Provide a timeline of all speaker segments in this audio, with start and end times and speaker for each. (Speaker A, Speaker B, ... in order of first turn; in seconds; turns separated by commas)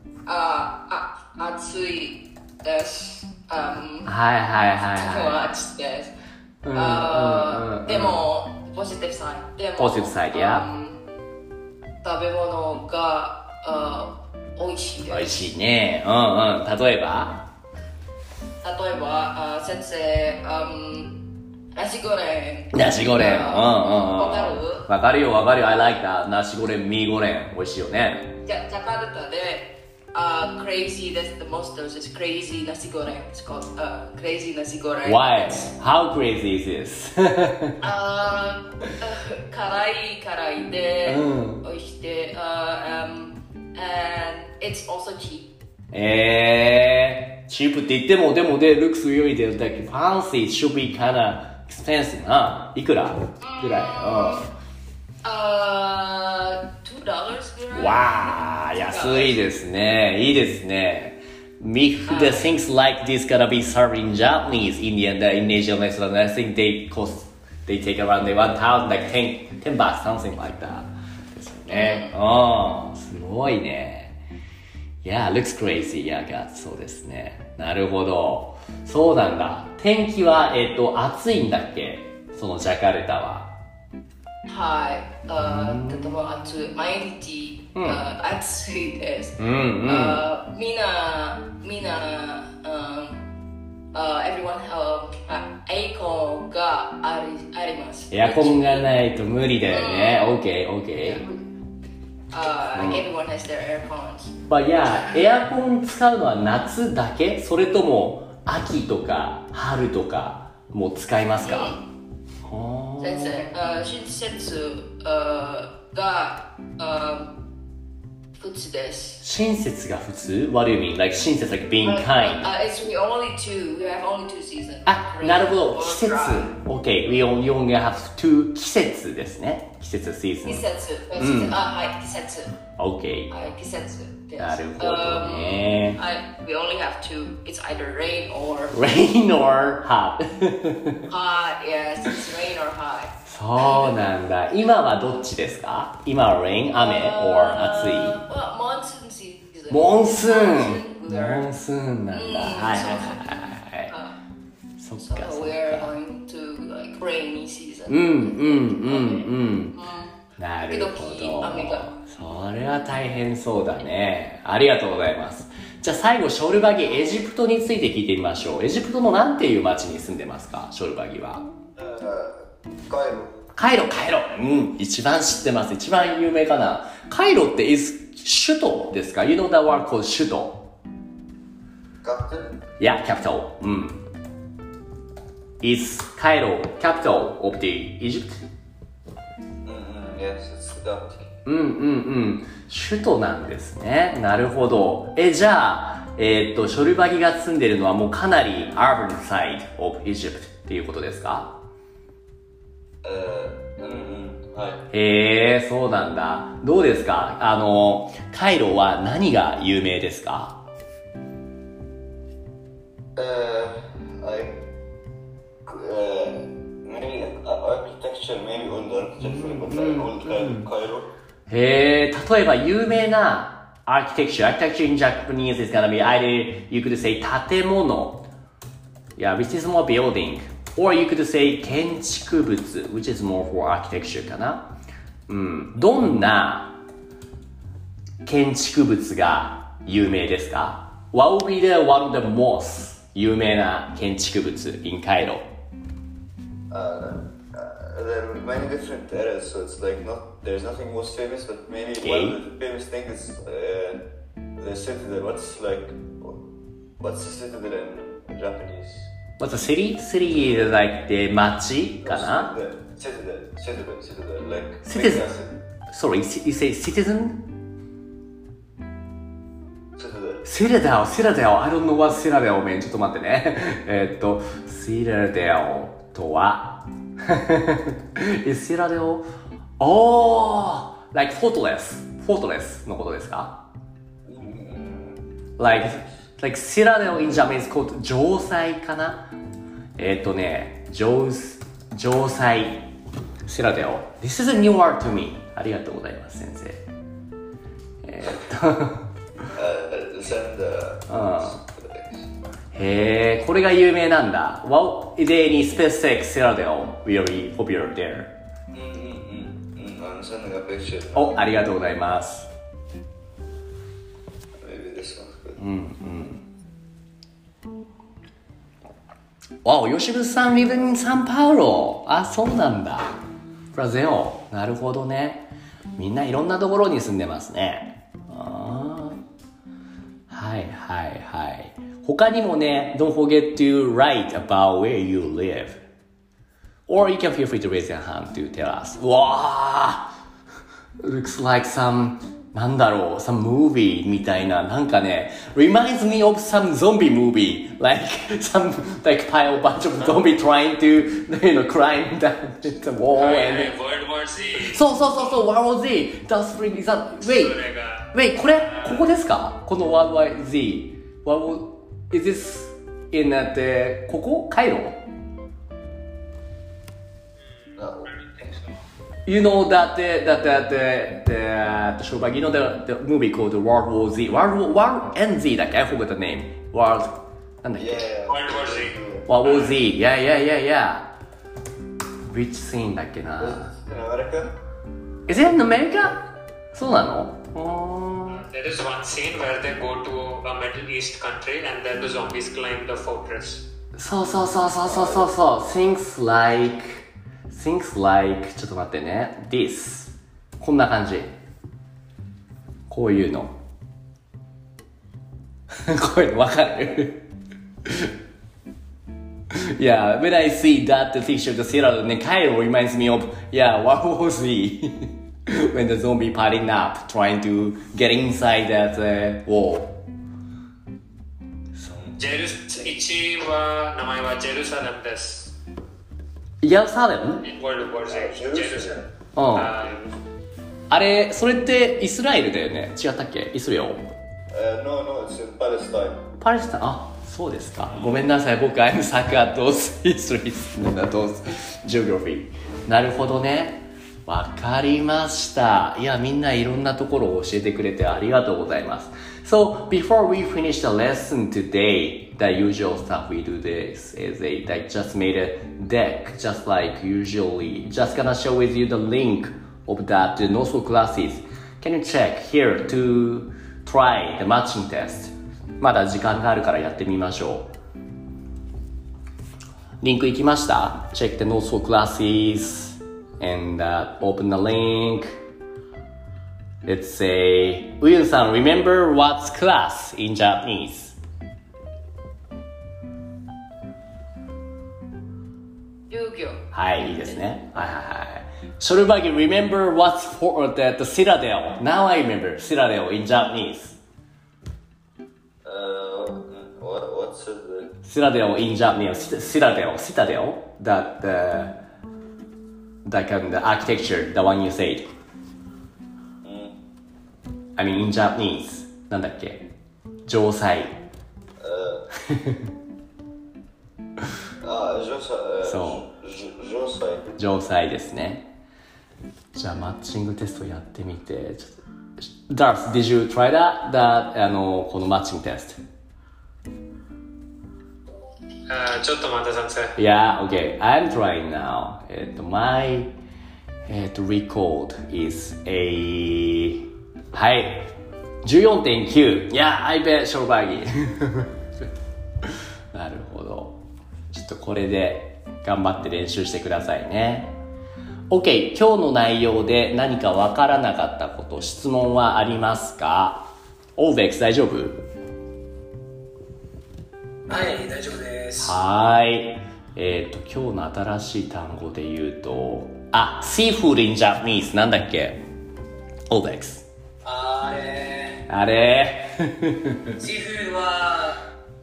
Speaker A: 0.2-4.1, Speaker B: 4.0-5.4, Speaker A: 4.9-6.1, Speaker B: 6.6-8.2, Speaker A: 6.7-11.0, Speaker B: 9.8-10.7, Speaker A: 12.0-15.5, Speaker B: 15.1-17.4, Speaker A: 18.6-21.2, Speaker A: 21.7-24.9, Speaker B: 22.7-28.3, Speaker A: 28.4-35.7, Speaker B: 35.0-37.8, Speaker A: 37.8-45.5, Speaker B: 41.0-41.6, Speaker B: 45.9-54.5, Speaker A: 53.4-54.5, Speaker A: 55.2-59.4, Speaker B: 57.7-74.2, Speaker A: 62.0-62.5, Speaker A: 71.7-72.1, Speaker B: 75.0-83.5, Speaker A: 84.5-93.2, Speaker B: 85.4-86.2, Speaker B: 87.7-88.0, Speaker B: 89.4-90.2, Speaker A: 93.9-98.9, Speaker B: 98.1-101.2, Speaker A: 99.7-100.4, Speaker A: 101.0-101.4, Speaker A: 102.3-104.3, Speaker B: 102.7-103.1, Speaker B: 104.5-111.8, Speaker A: 111.4-111.8, Speaker B: 112.4-113.5, Speaker A: 113.0-117.3, Speaker A: 118.4-119.2, Speaker B: 119.2-122.5, Speaker A: 121.8-126.5, Speaker B: 124.8-130.6, Speaker A: 130.4-132.6, Speaker B: 131.2-131.6, Speaker B: 132.8-133.3, Speaker A: 133.3-138.8, Speaker B: 134.4-136.0, Speaker B: 138.7-141.1, Speaker A: 141.1-144.0, Speaker B: 143.2-148.2, Speaker A: 146.8-151.5, Speaker B: 149.7-153.9, Speaker A: 152.1-154.2, Speaker B: 154.8-155.9, Speaker A: 155.0-161.9, Speaker B: 157.9-159.7, Speaker B: 160.4-171.5, Speaker C: 171.8-173.3, Speaker B: 173.5-180.6, Speaker C: 182.0-182.6, Speaker B: 182.8-184.0, Speaker B: 185.6-188.4, Speaker C: 189.6-191.3, Speaker B: 191.4-201.6, Speaker C: 203.0-204.8, Speaker B: 204.9-210.5, Speaker C: 213.2-214.6, Speaker C: 215.7-221.1, Speaker B: 219.2-220.7, Speaker B: 221.5-228.2, Speaker B: 229.2-234.7, Speaker B: 235.3-236.8, Speaker B: 238.2-245.4, Speaker C: 246.7-254.0, Speaker B: 252.0-252.4, Speaker C: 254.6-256.4, Speaker C: 257.0-259.1, Speaker B: 259.4-262.5, Speaker C: 260.4-260.8, Speaker C: 262.0-265.5, Speaker B: 264.8-265.3, Speaker B: 265.9-267.4, Speaker C: 270.0-270.5, Speaker B: 270.4-279.2, Speaker B: 279.8-283.6, Speaker C: 284.2-286.1, Speaker B: 285.6-289.3, Speaker B: 290.0-292.9, Speaker B: 293.4-296.8, Speaker B: 298.0-299.1, Speaker C: 299.5-302.3, Speaker B: 301.1-301.6, Speaker B: 302.7-308.3, Speaker C: 308.7-311.5, Speaker B: 311.1-312.5, Speaker C: 314.6-315.6, Speaker B: 315.6-316.4, Speaker B: 319.6-323.2, Speaker B: 323.7-329.2, Speaker B: 330.3-335.8, Speaker B: 336.9-340.1, Speaker B: 341.0-353.7, Speaker D: 353.1-355.0, Speaker B: 354.6-357.6, Speaker D: 357.2-359.1, Speaker B: 358.1-365.0, Speaker D: 367.4-368.8, Speaker C: 367.8-368.5, Speaker B: 369.2-378.1, Speaker C: 377.8-379.3, Speaker D: 378.3-379.8, Speaker B: 379.3-381.1, Speaker B: 382.3-383.7, Speaker C: 383.4-384.5, Speaker B: 385.3-386.1, Speaker B: 386.7-388.4, Speaker D: 388.3-393.6, Speaker B: 393.9-401.3, Speaker C: 394.9-395.3, Speaker B: 402.9-403.5, Speaker B: 405.7-407.2, Speaker B: 407.8-408.1, Speaker B: 409.5-420.0, Speaker D: 422.1-425.6, Speaker B: 426.6-427.4, Speaker D: 427.4-430.0, Speaker C: 427.8-429.1, Speaker B: 429.4-429.7, Speaker C: 429.8-430.2, Speaker B: 430.9-434.0, Speaker C: 434.5-436.2, Speaker B: 436.4-467.7, Speaker B: 470.0-475.4, Speaker B: 476.8-481.1, Speaker A: 486.1-486.6, Speaker B: 486.7-494.0, Speaker C: 495.6-497.9, Speaker B: 498.0-501.8, Speaker B: 503.0-505.1, Speaker C: 506.4-506.8, Speaker B: 507.8-509.7, Speaker B: 510.2-511.0, Speaker C: 511.6-512.0, Speaker B: 512.3-512.6, Speaker C: 514.6-517.3, Speaker B: 515.6-516.1, Speaker B: 517.4-518.5, Speaker B: 519.5-525.8, Speaker D: 528.7-529.9, Speaker B: 530.0-533.1, Speaker B: 533.9-537.9, Speaker B: 538.4-541.5, Speaker B: 542.4-543.8, Speaker B: 544.3-547.5, Speaker B: 548.3-555.0, Speaker E: 557.5-558.8, Speaker B: 558.6-565.4, Speaker B: 566.3-566.9, Speaker E: 567.2-568.5, Speaker B: 568.5-570.1, Speaker E: 570.2-571.4